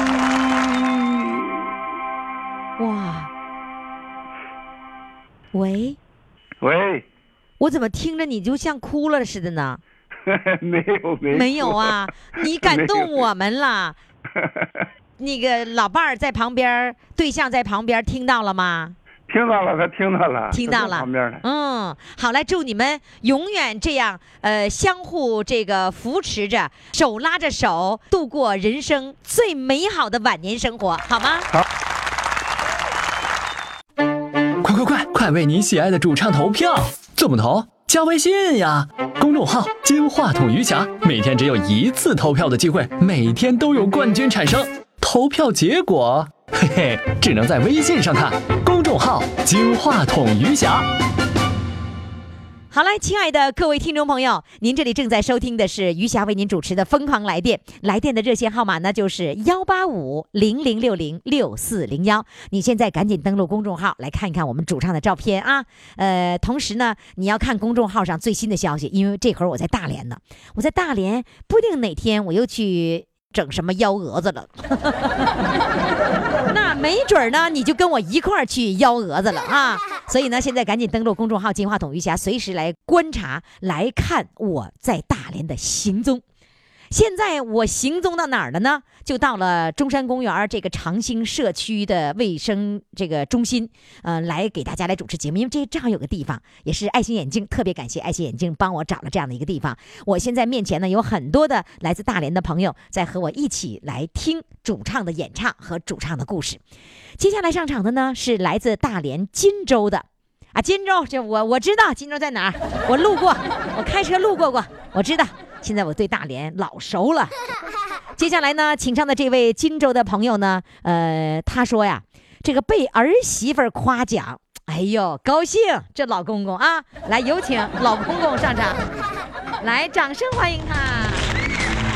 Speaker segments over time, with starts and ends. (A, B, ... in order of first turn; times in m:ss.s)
0:02.8-0:03.3 A
0:05.5-0:06.0 A
0:06.6-0:07.0 B
0:07.6-0:09.8 A
0:10.3-0:11.9 B
0:11.3-0:14.0 A
0:12.6-0:13.1 B
0:15.2-0:18.9 A
0:19.3-0:21.4 B
0:20.5-0:31.5 A
0:34.6-0:50.8 C
0:52.7-1:15.3 A
1:16.5-1:26.2 A
1:26.9-1:46.6 A
1:47.2-1:57.3 A
1:58.2-2:08.8 A
2:09.6-2:11.2 A